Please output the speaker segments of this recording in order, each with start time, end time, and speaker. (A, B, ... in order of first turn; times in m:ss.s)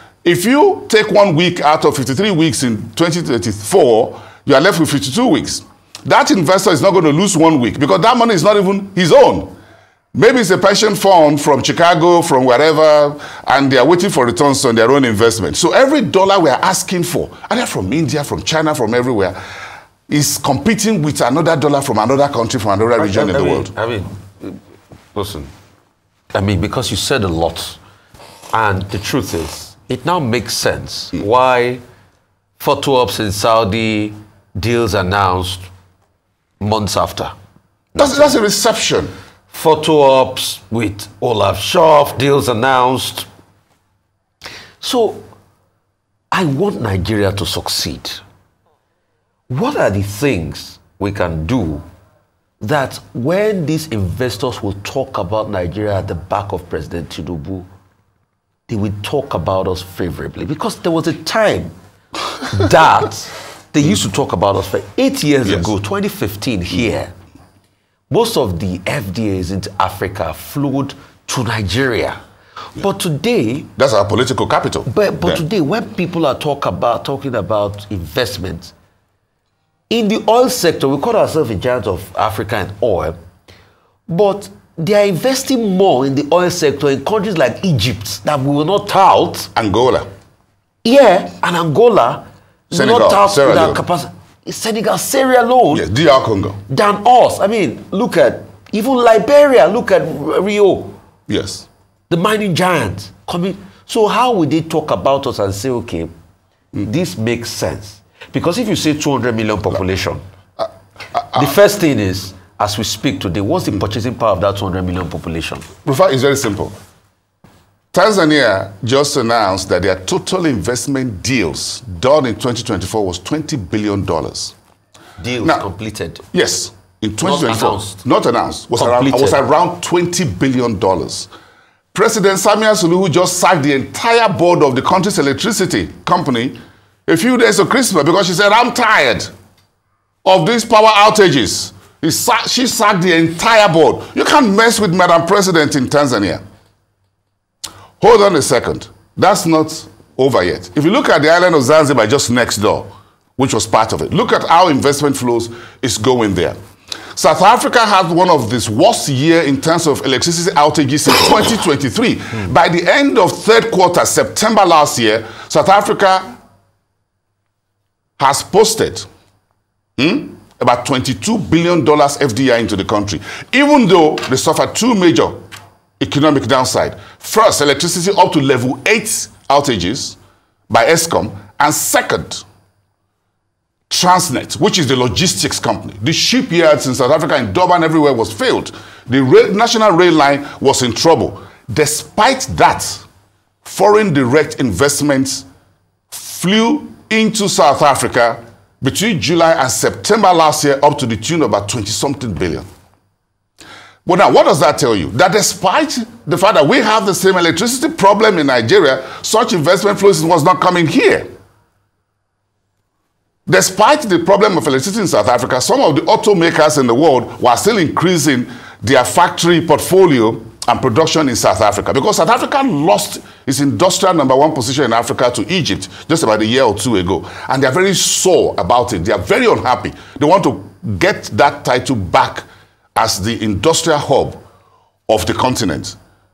0:00.2-0:09.5 A
0:10.1-0:19.4 A
0:20.1-0:23.7 A
0:23.0-0:24.6 B
0:25.1-0:25.5 B
0:26.3-0:27.8 B
0:28.5-0:31.8 B
0:32.6-0:35.7 B
0:36.6-0:37.3 B
0:37.9-0:38.3 B
0:38.0-0:39.1 A
0:39.5-0:43.3 B
0:44.8-0:45.2 B
0:46.3-0:48.2 B
0:49.5-0:51.8 B
0:52.6-0:57.7 B
0:58.7-1:01.7 B
1:02.4-1:07.1 B
1:05.4-1:05.7 A
1:08.1-1:12.2 B
1:12.8-1:13.7 B
1:13.8-1:15.4 A
1:14.9-1:18.7 B
1:19.9-1:23.2 B
1:24.1-1:29.5 B
1:29.5-1:30.1 A
1:30.8-1:35.8 B
1:32.7-1:33.8 A
1:35.7-1:36.6 A
1:36.7-1:41.0 B
1:41.3-1:41.7 A
1:42.1-1:46.1 B
1:46.8-1:50.2 B
1:50.6-1:51.5 A
1:51.3-1:55.7 B
1:55.8-1:56.8 A
1:57.9-2:04.5 A
2:05.2-2:06.2 B
2:06.3-2:11.3 A
2:07.2-2:08.0 B
2:08.8-2:09.4 B
2:11.9-2:19.3 A
2:20.2-2:26.4 A
2:28.0-2:36.6 A
2:37.1-2:46.3 A
2:48.2-2:49.1 A
2:50.0-2:55.4 A
2:56.0-3:00.2 A
3:00.7-3:02.4 A
3:03.9-3:13.0 A
3:13.6-3:15.4 A
3:16.1-3:22.7 A
3:24.0-3:31.3 A
3:33.4-3:54.4 A
3:55.1-3:56.0 A